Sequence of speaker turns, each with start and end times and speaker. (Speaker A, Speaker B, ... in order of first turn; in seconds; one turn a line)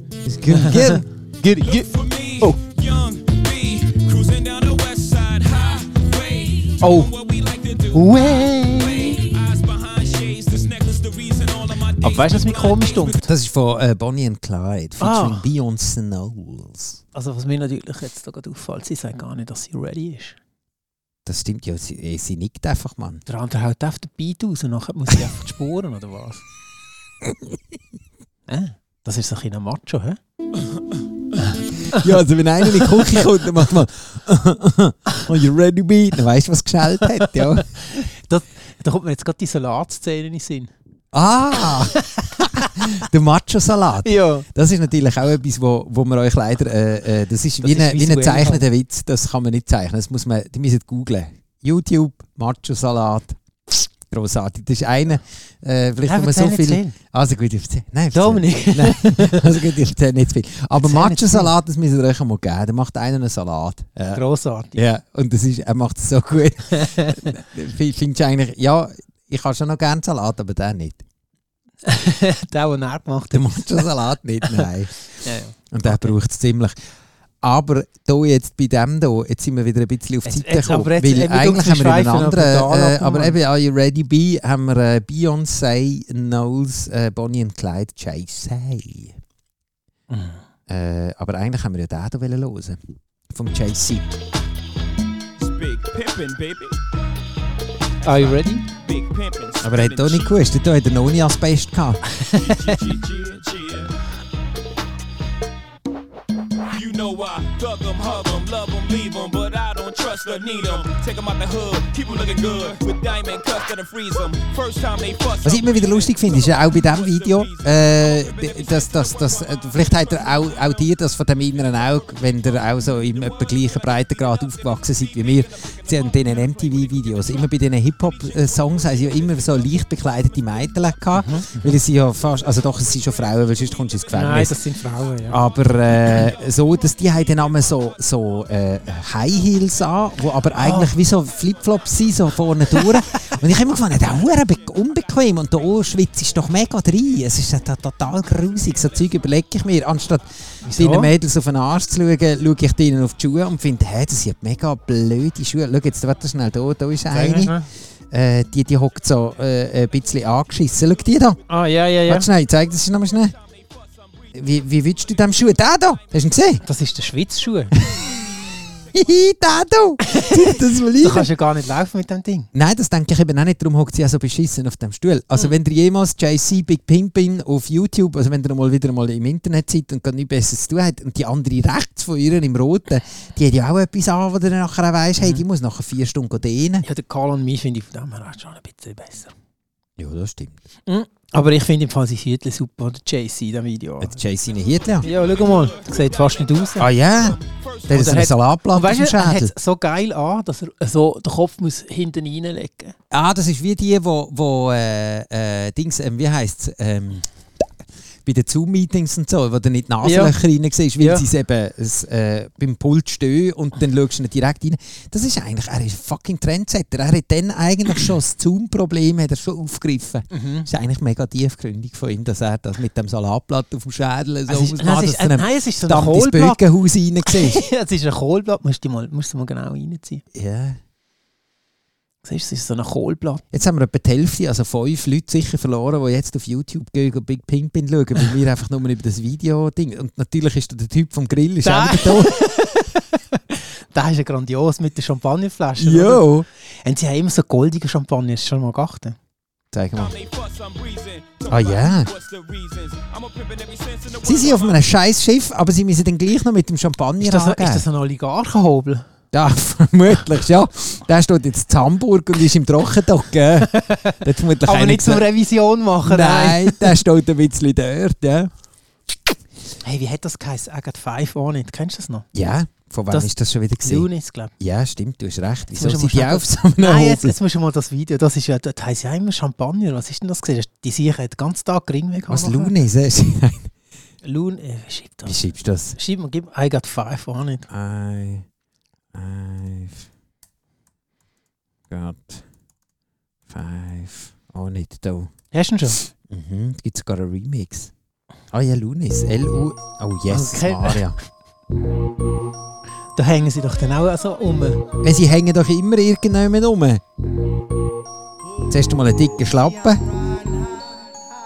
Speaker A: 0.2-1.1
Speaker B: 0.5-1.9
Speaker C: 1.6-13.2
Speaker B: 6.8-7.1
Speaker B: 7.9-9.2
Speaker B: 12.0-13.3
Speaker A: 13.2-17.0
Speaker B: 15.0-15.4
Speaker B: 17.1-20.4
Speaker A: 21.2-23.2
Speaker B: 23.3-26.4
Speaker B: 28.5-30.2
Speaker A: 31.9-37.7
Speaker B: 32.7-33.1
Speaker B: 37.2-40.7
Speaker A: 41.1-64.2
Speaker B: 42.1-43.0
Speaker B: 44.0-44.5
Speaker B: 47.6-48.6
Speaker B: 56.0-56.9
Speaker B: 58.1-59.6
Speaker B: 60.8-61.5
Speaker B: 64.1-64.8
Speaker A: 64.8-71.0
Speaker B: 66.8-67.2
Speaker B: 71.8-73.9
Speaker A: 73.3-74.9
Speaker B: 74.4-74.7
Speaker B: 75.2-76.2
Speaker A: 75.7-76.8
Speaker A: 77.4-89.2
Speaker B: 80.2-83.3
Speaker B: 90.1-90.4
Speaker A: 90.7-92.8
Speaker A: 93.3-94.1
Speaker C: 95.4-96.8
Speaker B: 98.0-98.6
Speaker C: 98.1-100.4
Speaker A: 99.6-102.0
Speaker B: 102.2-102.8
Speaker C: 102.3-103.9
Speaker C: 106.7-120.6
Speaker A: 115.4-134.6
Speaker C: 122.8-127.5
Speaker C: 128.3-129.2
Speaker B: 131.1-131.7
Speaker B: 134.1-135.4
Speaker A: 135.3-157.6
Speaker B: 140.6-140.9
Speaker B: 150.6-151.1
Speaker B: 157.1-157.7
Speaker A: 158.1-161.4
Speaker B: 161.5-162.3
Speaker A: 162.1-163.3
Speaker C: 163.4-164.4
Speaker A: 164.3-166.6
Speaker B: 166.6-167.7
Speaker A: 168.9-171.3
Speaker B: 170.0-172.5
Speaker A: 172.5-186.8
Speaker B: 186.8-189.3
Speaker A: 190.0-190.6
Speaker B: 190.9-194.2
Speaker A: 194.0-195.1
Speaker C: 194.8-198.2
Speaker B: 195.0-196.9
Speaker A: 196.8-199.5
Speaker B: 197.9-202.9
Speaker A: 203.1-207.7
Speaker A: 208.2-227.6
Speaker B: 210.0-210.3
Speaker B: 211.0-211.2
Speaker B: 220.3-220.7
Speaker B: 224.5-226.6
Speaker B: 227.2-230.2
Speaker A: 230.3-230.8
Speaker B: 232.2-233.4
Speaker A: 233.5-242.3
Speaker B: 241.6-246.3
Speaker A: 245.8-246.5
Speaker B: 246.8-249.2
Speaker A: 249.7-250.1
Speaker C: 249.9-254.8
Speaker A: 251.5-252.1
Speaker A: 254.2-257.8
Speaker B: 257.2-259.0
Speaker A: 259.3-265.3
Speaker B: 263.7-267.0
Speaker A: 266.0-268.5
Speaker B: 269.8-272.3
Speaker A: 272.3-274.1
Speaker B: 273.1-274.5
Speaker A: 274.6-277.4
Speaker B: 275.8-282.8
Speaker A: 282.3-283.7
Speaker B: 284.2-285.4
Speaker A: 285.2-286.0
Speaker B: 286.0-287.7
Speaker A: 287.7-288.4
Speaker A: 289.1-290.1
Speaker A: 291.9-292.4
Speaker A: 293.5-295.3
Speaker B: 295.5-296.0
Speaker A: 296.2-297.9
Speaker A: 298.5-301.2
Speaker B: 300.3-301.1
Speaker B: 303.1-304.8
Speaker A: 305.0-307.0
Speaker A: 308.7-310.0